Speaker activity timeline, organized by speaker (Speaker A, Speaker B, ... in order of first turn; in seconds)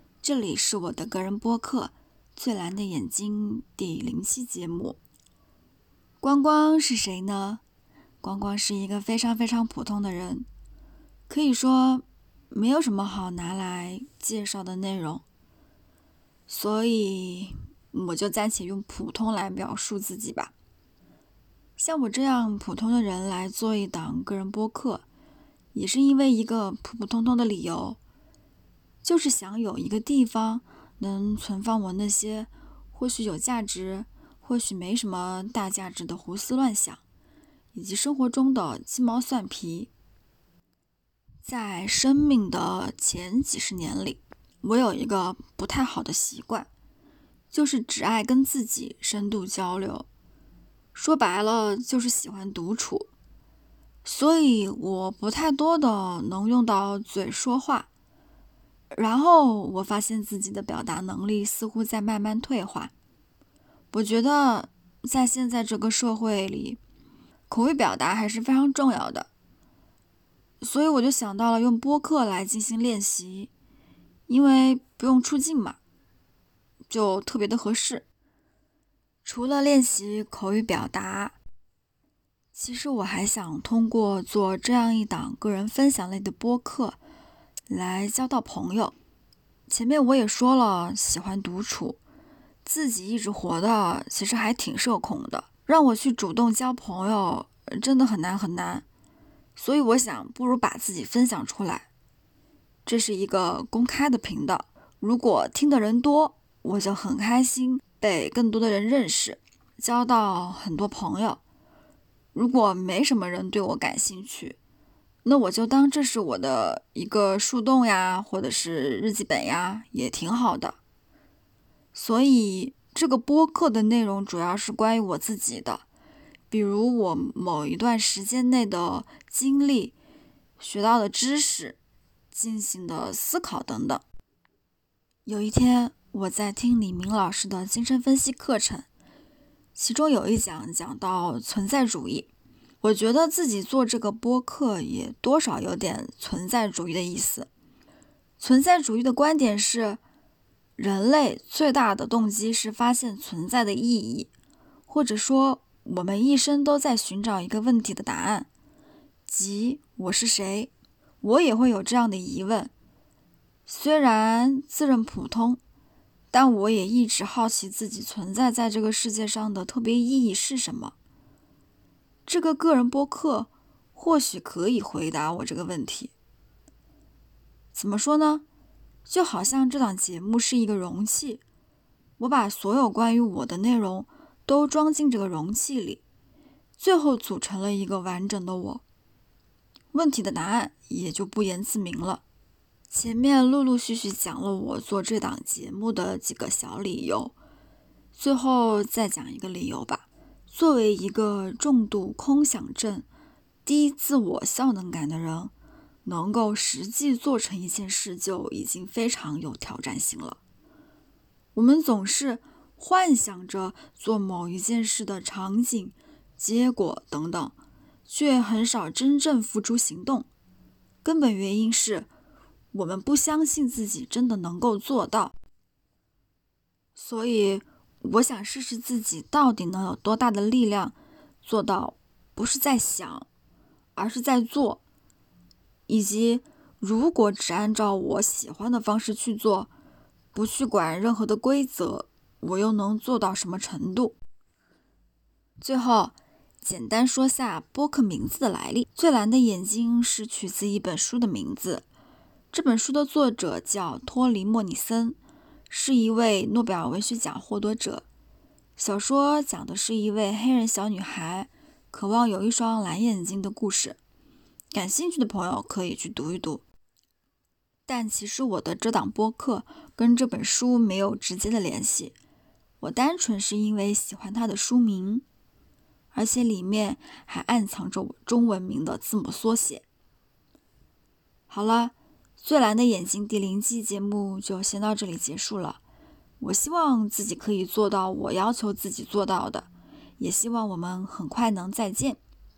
Speaker A: 0.2-5.0, 6.2-7.6, 8.2-10.5, 11.3-15.2, 16.5-20.5, 21.8-25.0, 25.7-28.0, 29.0-37.0, 37.7-39.9, 41.4-46.7, 47.5-50.0, 50.9-53.1, 54.0-57.9, 58.9-62.9, 63.9-66.8, 67.5-69.3, 70.6-73.5, 74.3-75.8, 76.9-78.0, 79.2-81.3, 82.5-87.0, 87.7-88.9, 89.7-92.0, 92.6-98.8, 99.5-101.9, 102.8-111.4, 112.3-114.6, 115.2-120.8, 121.9-125.8, 126.5-129.9, 130.6-131.8, 132.3-134.0, 135.2-138.8, 139.8-142.3, 142.8-147.5, 148.4-150.0, 150.8-154.3, 154.9-158.5, 159.3-160.7, 161.2-162.7, 163.7-165.6, 166.3-170.9, 172.3-176.1, 177.7-178.4, 179.1-181.4, 182.2-186.0, 186.8-188.8, 189.9-192.2, 192.9-197.3, 198.1-203.1, 203.6-205.5, 206.0-210.4, 211.5-217.5, 218.1-220.3, 221.0-222.1, 222.7-225.3, 226.9-233.3, 233.9-234.8, 235.9-239.7, 240.3-244.2, 245.6-251.8, 252.5-255.2, 255.7-258.0, 258.8-264.0, 264.7-266.6, 267.9-272.1, 272.8-275.2, 276.1-279.8, 281.5-285.8, 286.4-292.2